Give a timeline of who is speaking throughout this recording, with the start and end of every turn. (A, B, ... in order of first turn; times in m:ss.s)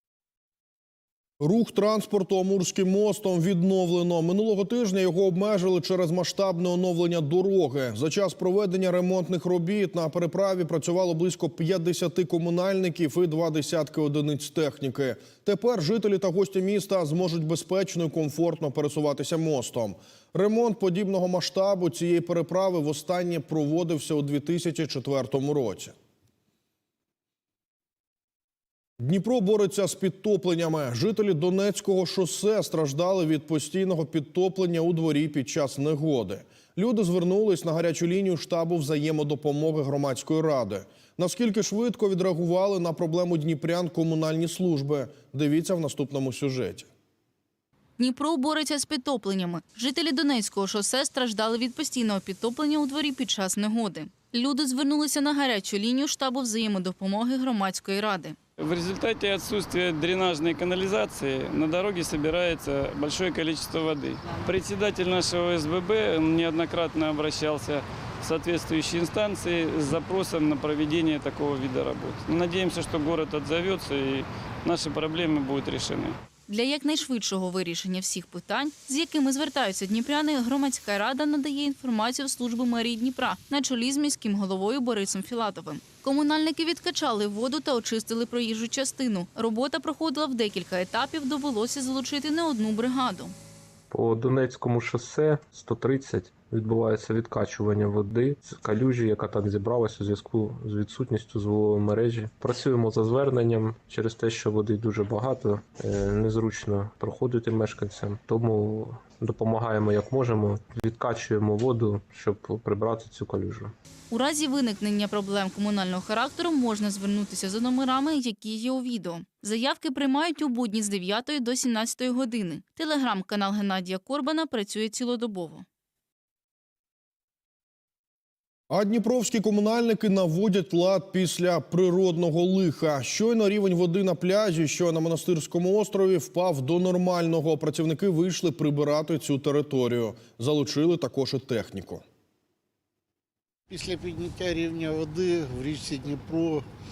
0:01.4-0:25.9 A
0:29.0-0:46.9 A
0:48.0-0:58.4 B
0:58.6-1:16.1 C
1:16.5-1:33.3 B
1:33.9-1:53.7 D
1:54.1-2:05.6 B
2:08.7-2:22.0 A
2:23.7-2:26.6 E